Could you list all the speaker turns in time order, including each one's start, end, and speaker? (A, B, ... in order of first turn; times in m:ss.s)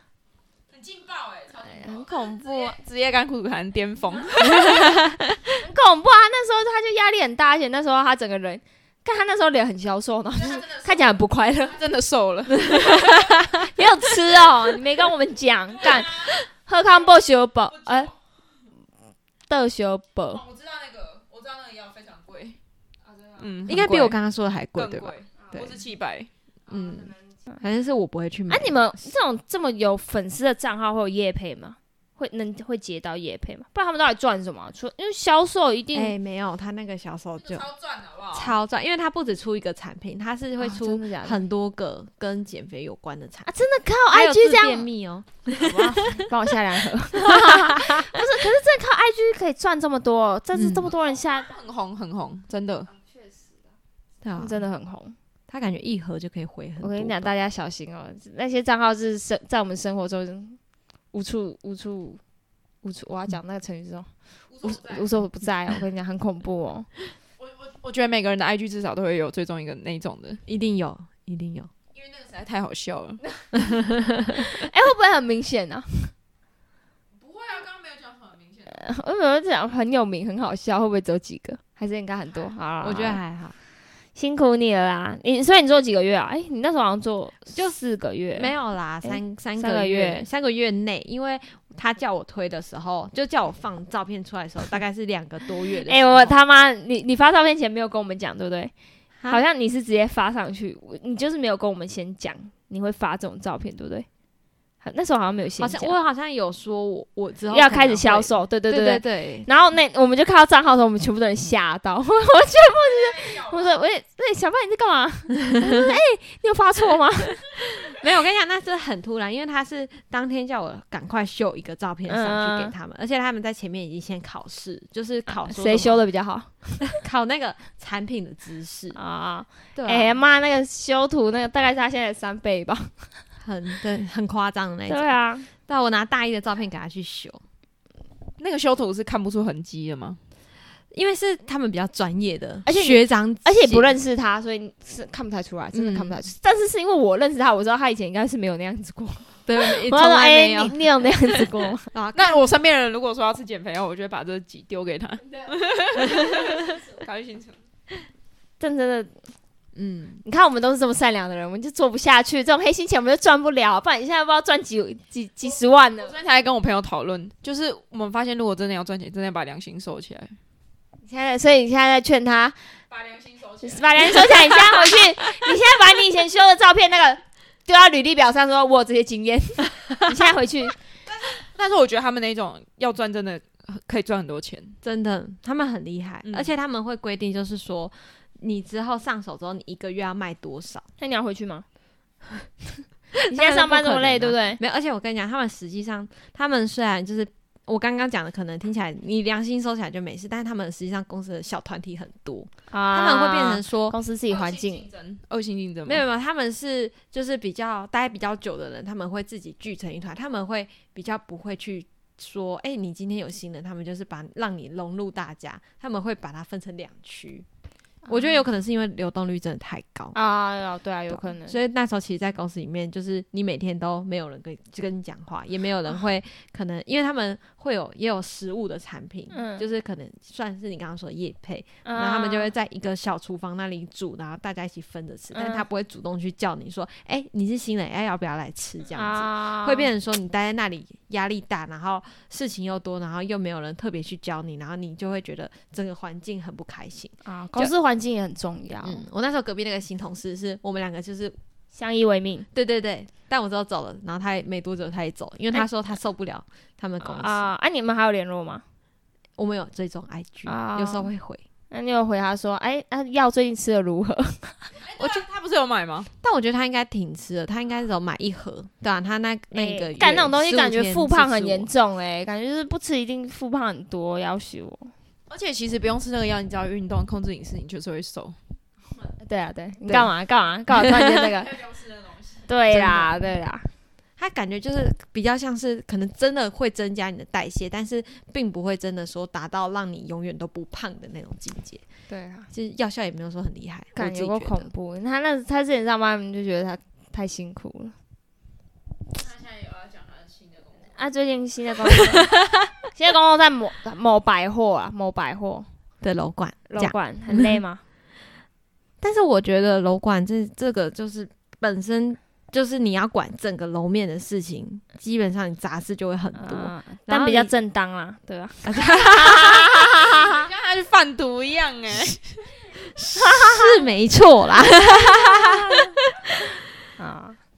0:00.7-0:05.0 A
0:01.7-0:02.8 B
0:04.5-0:05.2 C
0:05.6-0:11.8 B
0:10.4-0:11.1 A
0:11.7-0:13.2 A
0:12.7-0:13.5 C
0:12.7-0:18.1 B
0:17.8-0:18.1 A
0:19.5-0:20.4 B
0:20.3-0:22.6 A
0:23.4-0:24.2 A
0:23.7-0:25.7 C
0:24.8-0:26.3 A
0:26.7-0:29.1 C
0:28.5-0:36.1 B
0:35.9-0:37.7 C
0:37.4-0:38.5 A
0:38.3-0:43.5 C
0:40.6-0:41.4 B
0:43.5-0:44.9 B
0:44.1-0:46.2 C
0:45.5-0:51.5 B
0:47.2-0:48.2 C
0:50.6-0:50.9 C
0:51.2-0:52.9 A
0:54.2-0:54.6 C
0:54.4-0:55.2 B
0:55.5-0:57.3 C
0:56.8-1:00.6 B
1:01.1-1:02.2 B
1:02.8-1:04.1 B
1:04.5-1:05.1 A
1:04.6-1:06.9 B
1:07.4-1:10.4 A
1:10.5-1:11.7 C
1:11.9-1:13.2 A
1:13.5-1:14.5 C
1:14.4-1:16.1 B
1:17.1-1:18.8 A
1:18.7-1:23.2 B
1:22.8-1:23.6 C
1:24.2-1:28.5 B
1:28.4-1:36.4 C
1:29.0-1:30.3 B
1:35.9-1:38.7 B
1:39.3-1:44.1 B
1:44.8-1:46.0 B
1:45.6-1:49.5 C
1:47.5-1:57.5 B
1:53.0-1:53.6 A
1:57.6-2:06.0 C
2:02.1-2:02.7 B
2:05.3-2:06.8 B
2:06.9-2:09.0 C
2:09.0-2:12.9 B
2:09.8-2:10.2 C
2:13.4-2:15.1 C
2:14.9-2:15.5 B
2:15.6-2:17.4 C
2:18.4-2:20.2 A
2:20.9-2:23.9 C
2:22.7-2:31.9 B
2:25.7-2:26.2 C
2:29.5-2:30.8 C
2:31.9-2:32.4 C
2:32.1-2:37.6 A
2:38.6-2:39.2 B
2:39.8-2:40.2 C
2:40.2-2:46.2 B
2:46.0-2:50.4 A
2:51.0-2:52.6 B
2:52.9-2:54.5 A
2:53.6-3:00.8 B
3:01.2-3:04.8 A
3:04.8-3:10.9 C
3:06.2-3:06.5 A
3:11.0-3:11.6 B
3:13.2-3:24.0 C
3:13.3-3:14.6 B
3:22.7-3:24.9 B
3:24.3-3:26.0 A
3:25.9-3:37.5 C
3:38.1-3:40.2 C
3:40.1-3:41.6 B
3:41.1-4:07.7 C
3:49.3-3:49.6 B
3:51.8-3:52.5 B
3:55.4-3:55.6 B
3:58.9-3:59.9 B
4:07.2-4:09.0 B
4:08.8-4:11.4 C
4:11.7-4:12.5 B
4:12.5-4:17.5 C
4:17.0-4:18.6 B
4:19.4-4:21.4 C
4:20.5-4:21.1 B
4:21.7-4:24.7 B
4:24.8-4:26.1 A
4:26.2-4:31.7 C
4:29.5-4:34.9 B
4:35.3-4:38.4 A
4:39.2-4:41.6 B
4:41.5-4:42.5 A
4:42.5-4:43.7 B
4:42.7-4:43.1 C
4:44.2-4:51.8 C
4:52.1-4:52.5 B
4:52.5-4:54.7 C
4:54.0-4:58.0 B
4:59.1-5:00.9 A
5:01.0-5:02.4 B
5:02.9-5:05.7 B
5:06.0-5:07.6 C
5:06.7-5:07.8 B
5:09.0-5:17.5 C
5:16.4-5:20.3 B
5:18.6-5:19.7 C
5:20.1-5:22.5 A
5:23.2-5:23.7 B
5:23.2-5:26.5 C
5:25.0-5:25.9 B
5:27.0-5:27.4 B